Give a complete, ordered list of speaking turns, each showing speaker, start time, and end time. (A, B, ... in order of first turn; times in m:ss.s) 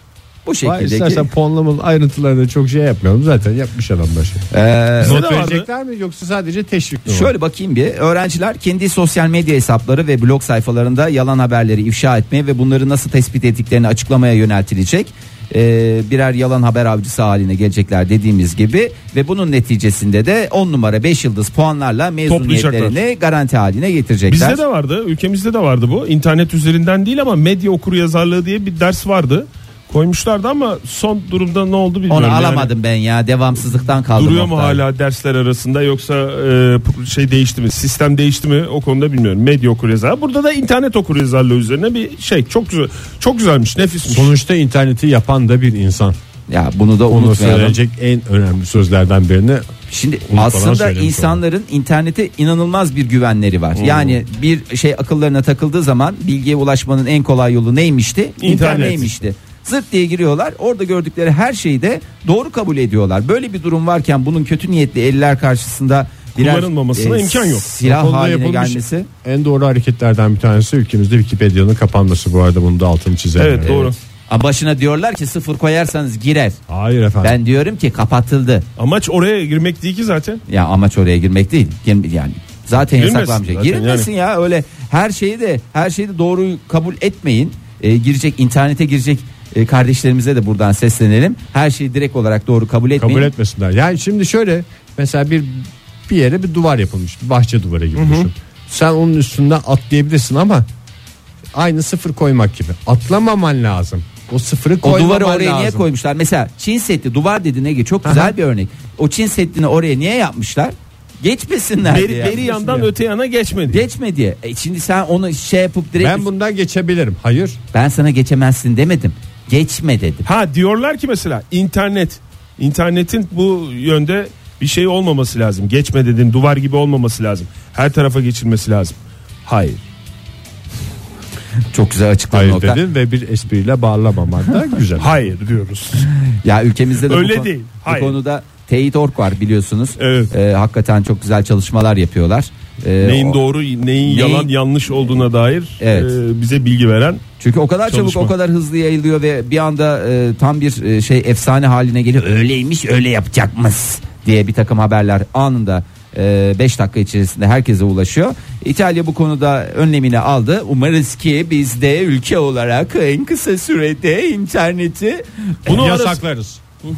0:00.4-0:01.3 A
0:00.6-0:04.4 B
0:04.5-0:05.2 A
0:05.0-0:07.3 B
0:05.0-0:05.7 C
0:07.1-0:24.6 A
0:22.3-0:23.0 C
0:24.3-0:32.7 C
0:32.1-0:34.8 A
0:34.1-0:44.3 C
0:44.1-0:46.2 B
0:46.5-0:47.8 A
0:47.1-0:49.8 B
0:49.9-1:09.1 A
0:50.3-0:51.4 B
0:53.8-0:54.2 C
0:58.4-0:59.1 C
1:06.4-1:07.7 C
1:07.8-1:13.9 B
1:13.4-1:14.0 C
1:14.3-1:16.6 A
1:16.7-1:17.4 B
1:17.2-1:18.7 A
1:18.8-1:20.4 C
1:20.5-1:33.3 A
1:23.0-1:24.1 C
1:33.0-1:40.7 B
1:38.0-1:38.3 C
1:41.5-1:45.8 B
1:44.8-1:52.5 A
1:48.0-1:48.4 B
1:51.8-1:53.8 C
1:52.4-1:52.9 B
1:53.7-1:56.3 A
1:56.0-1:57.6 B
1:57.7-2:00.3 A
2:00.3-2:09.8 C
2:11.7-2:12.8 A
2:12.3-2:15.2 B
2:15.0-2:16.1 C
2:16.4-2:23.4 A
2:17.1-2:18.2 C
2:20.0-2:20.3 C
2:23.0-2:27.2 C
2:24.0-2:24.5 A
2:25.8-2:26.1 A
2:27.4-2:45.9 A
2:27.9-2:28.3 C
2:45.7-2:46.2 C
2:45.7-2:46.6 B